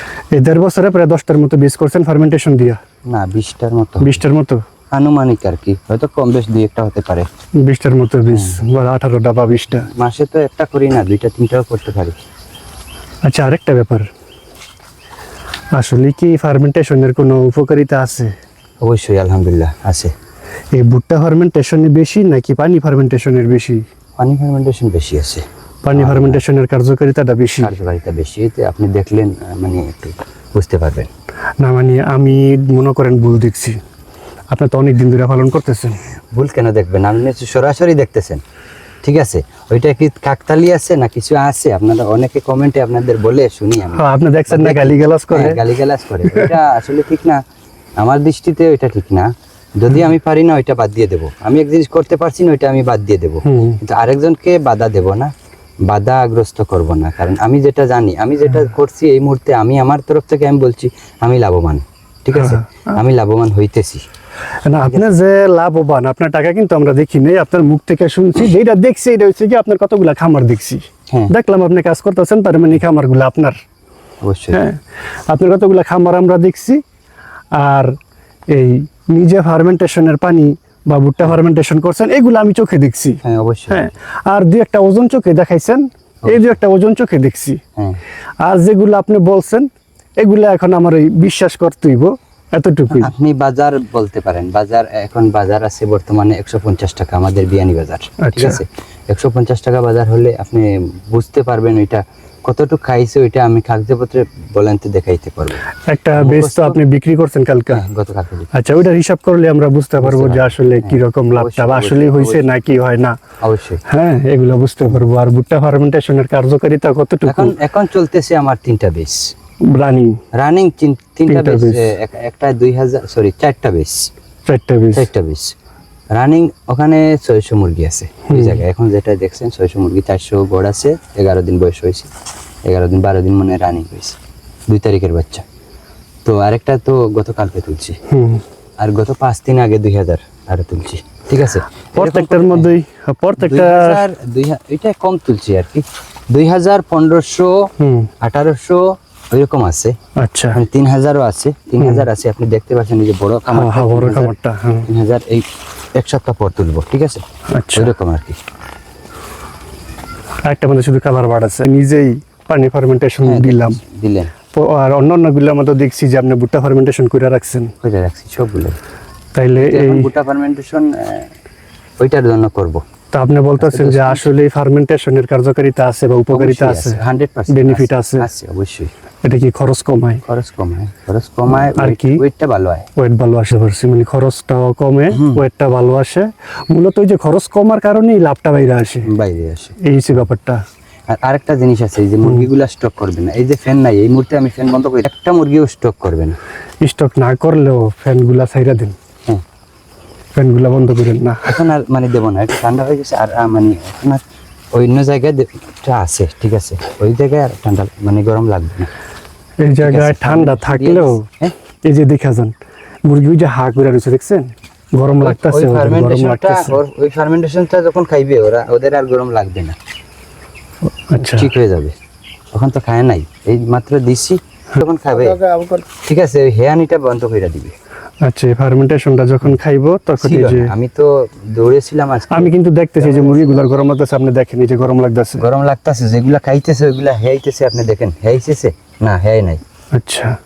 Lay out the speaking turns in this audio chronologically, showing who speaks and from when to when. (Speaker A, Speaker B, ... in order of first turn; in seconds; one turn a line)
Speaker A: 0.3-2.8
Speaker B: 3.1-4.2
Speaker A: 4.0-4.6
Speaker B: 4.9-7.3
Speaker A: 7.6-9.9
Speaker B: 8.3-8.6
Speaker B: 9.8-12.2
Speaker A: 13.2-14.1
Speaker A: 15.7-18.3
Speaker B: 18.8-20.1
Speaker A: 20.7-23.9
Speaker B: 24.2-26.4
Speaker A: 25.8-27.7
Speaker B: 27.6-31.1
Speaker A: 31.6-33.8
Speaker A: 34.5-36.0
Speaker B: 36.3-38.4
Speaker B: 39.0-47.4
Speaker A: 43.9-45.7
Speaker A: 46.3-46.5
Speaker B: 48.0-55.3
Speaker A: 53.5-53.8
Speaker B: 55.9-64.0
Speaker A: 62.3-62.6
Speaker A: 64.7-73.6
Speaker B: 74.2-74.6
Speaker A: 74.5-76.8
Speaker A: 77.5-78.0
Speaker A: 78.5-87.6
Speaker B: 83.2-83.8
Speaker B: 86.2-86.5
Speaker A: 88.4-89.7
Speaker A: 90.2-93.1
Speaker B: 92.9-106.8
Speaker A: 98.2-98.6
Speaker A: 105.9-107.8
Speaker B: 107.7-108.5
Speaker A: 108.5-113.2
Speaker B: 110.0-112.5
Speaker B: 113.4-113.8
Speaker A: 113.9-117.5
Speaker B: 117.2-119.3
Speaker A: 119.7-120.2
Speaker B: 120.3-124.1
Speaker A: 121.3-121.9
Speaker A: 124.5-125.1
Speaker B: 124.9-125.5
Speaker B: 126.1-132.1
Speaker A: 128.3-128.6
Speaker B: 132.7-134.2
Speaker B: 134.7-135.4
Speaker B: 136.2-138.0
Speaker A: 138.1-138.4
Speaker B: 138.8-142.7
Speaker A: 141.9-144.0
Speaker B: 143.4-147.6
Speaker A: 147.8-148.1
Speaker B: 148.2-149.9
Speaker A: 150.2-150.6
Speaker B: 150.5-154.3
Speaker A: 151.8-152.1
Speaker A: 153.5-154.9
Speaker B: 154.9-155.4
Speaker B: 156.0-157.2
Speaker A: 157.5-157.9
Speaker B: 157.7-158.4
Speaker A: 160.4-163.8
Speaker B: 163.2-164.3
Speaker A: 164.5-167.7
Speaker B: 167.8-168.8
Speaker A: 169.3-170.1
Speaker B: 169.6-171.3
Speaker B: 172.0-172.8
Speaker A: 173.1-178.3
Speaker B: 173.6-174.3
Speaker B: 176.3-178.9
Speaker A: 179.2-180.2
Speaker B: 180.2-182.9
Speaker A: 181.8-182.2
Speaker A: 183.0-189.1
Speaker B: 185.1-185.4
Speaker B: 189.1-189.8
Speaker A: 189.8-190.6
Speaker B: 191.1-196.4
Speaker A: 196.8-198.9
Speaker A: 200.3-201.5
Speaker B: 201.5-204.2
Speaker B: 204.7-208.9
Speaker A: 209.6-211.2
Speaker B: 209.8-211.5
Speaker A: 211.8-216.8
Speaker B: 215.2-219.8
Speaker A: 221.1-221.5
Speaker B: 221.2-221.9
Speaker B: 222.5-227.7
Speaker A: 228.2-230.7
Speaker B: 230.2-233.8
Speaker A: 232.3-235.5
Speaker B: 235.4-239.6
Speaker A: 239.9-240.3